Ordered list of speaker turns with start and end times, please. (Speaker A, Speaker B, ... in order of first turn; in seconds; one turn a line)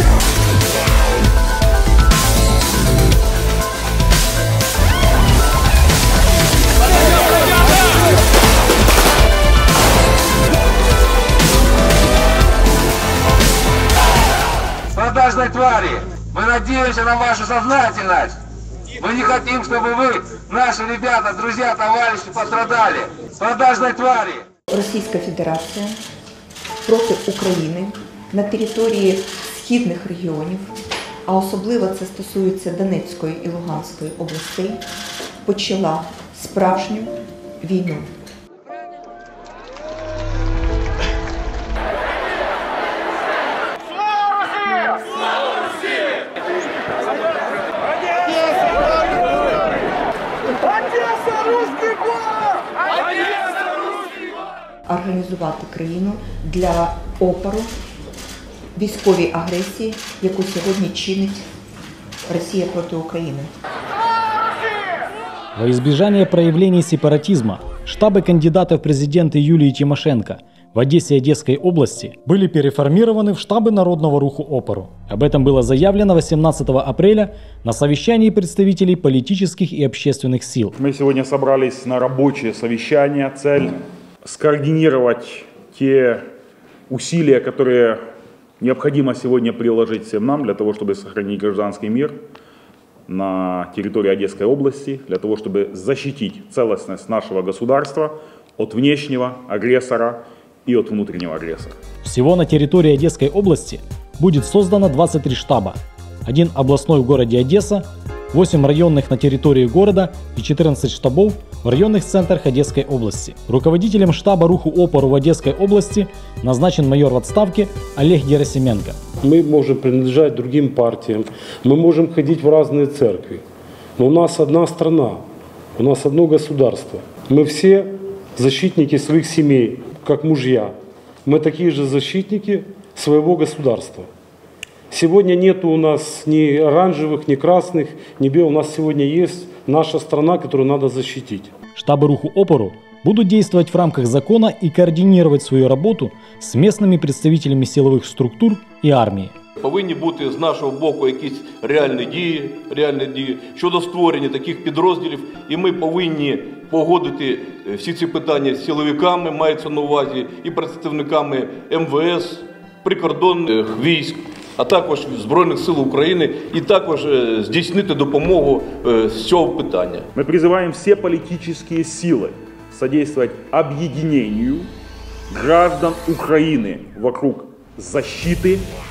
Speaker A: 14.9-18.4
Speaker A: 18.9-24.4
Speaker B: 24.7-26.0
Speaker B: 26.9-30.7
Speaker B: 31.3-34.8
Speaker B: 35.4-38.1
Speaker B: 54.9-57.7
Speaker B: 58.8-61.5
Speaker B: 62.3-63.5
Speaker C: 65.6-80.8
Speaker D: 80.8-86.2
Speaker D: 86.9-88.0
Speaker D: 88.6-92.2
Speaker D: 93.1-101.8
Speaker C: 102.0-119.0
Speaker E: 119.2-123.4
Speaker E: 124.0-125.2
Speaker E: 125.8-130.7
Speaker E: 131.2-134.1
Speaker E: 134.9-141.5
Speaker C: 141.8-149.3
Speaker F: 149.6-170.1
Speaker D: 170.2-174.7
Speaker D: 175.3-178.7